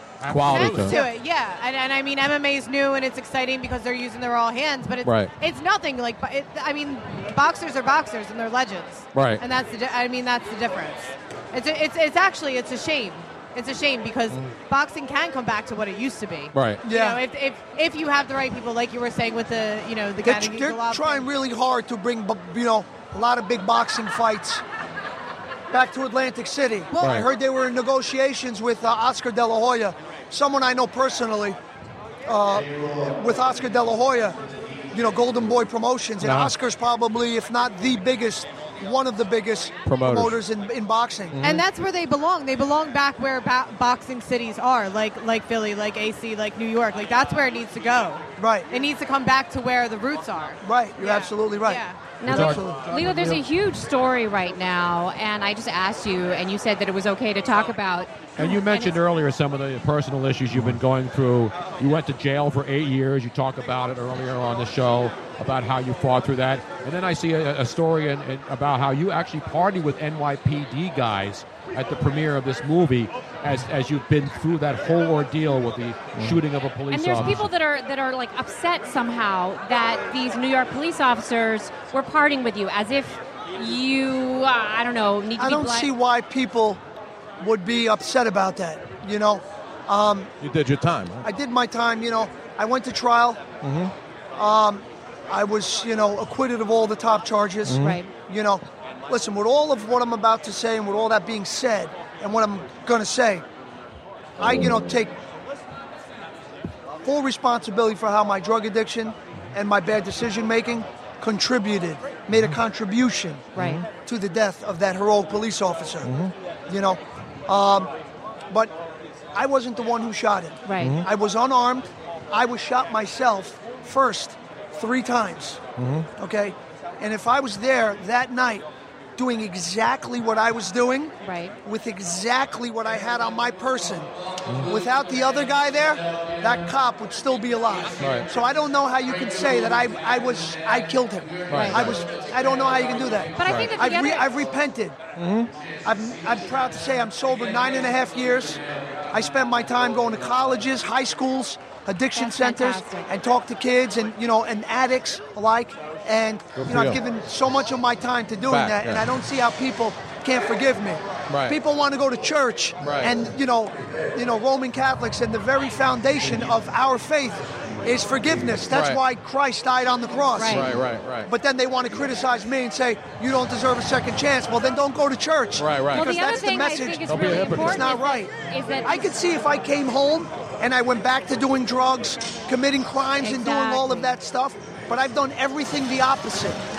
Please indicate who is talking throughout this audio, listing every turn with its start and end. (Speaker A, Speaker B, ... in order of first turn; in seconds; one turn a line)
Speaker A: 0.2-1.0
Speaker B: 0.3-1.0
Speaker C: 0.4-21.3
Speaker B: 5.0-5.3
Speaker B: 9.1-9.4
Speaker B: 16.5-16.8
Speaker D: 16.8-17.2
Speaker D: 20.2-24.6
Speaker D: 25.7-31.6
Speaker C: 26.9-27.3
Speaker B: 27.0-27.2
Speaker D: 32.2-34.4
Speaker D: 34.9-41.5
Speaker B: 36.2-36.5
Speaker B: 39.9-40.4
Speaker B: 41.3-41.6
Speaker C: 41.4-52.1
Speaker D: 48.4-48.7
Speaker D: 50.6-52.9
Speaker E: 52.2-59.0
Speaker A: 52.3-53.4
Speaker A: 58.4-77.5
Speaker B: 76.1-76.4
Speaker E: 76.9-85.9
Speaker D: 85.4-86.8
Speaker D: 87.4-90.3
Speaker B: 90.4-91.2
Speaker D: 91.2-93.5
Speaker B: 93.6-93.9
Speaker D: 94.3-103.4
Speaker B: 97.7-98.0
Speaker E: 97.8-98.1
Speaker D: 104.4-105.1
Speaker D: 107.0-116.1
Speaker E: 113.5-113.8
Speaker B: 113.5-113.8
Speaker B: 116.0-116.3
Speaker D: 116.7-117.9
Speaker D: 119.3-125.6
Speaker E: 120.6-121.0
Speaker B: 120.8-121.0
Speaker B: 125.8-126.1
Speaker D: 126.2-128.7
Speaker D: 129.2-134.1
Speaker E: 131.2-131.5
Speaker D: 134.6-145.1
Speaker B: 138.0-138.2
Speaker B: 141.5-142.0
Speaker E: 141.5-141.9
Speaker E: 143.4-144.3
Speaker B: 143.4-143.7
Speaker B: 145.2-145.5
Speaker D: 145.8-170.7
Speaker E: 152.1-153.1
Speaker B: 156.6-157.0
Speaker B: 158.5-159.0
Speaker B: 161.3-161.6
Speaker B: 162.8-163.1
Speaker B: 168.7-169.0
Speaker E: 170.3-170.7
Speaker B: 170.5-171.3
Speaker D: 171.3-186.6
Speaker B: 175.6-176.1
Speaker E: 175.9-179.2
Speaker B: 177.1-177.8
Speaker E: 183.2-184.1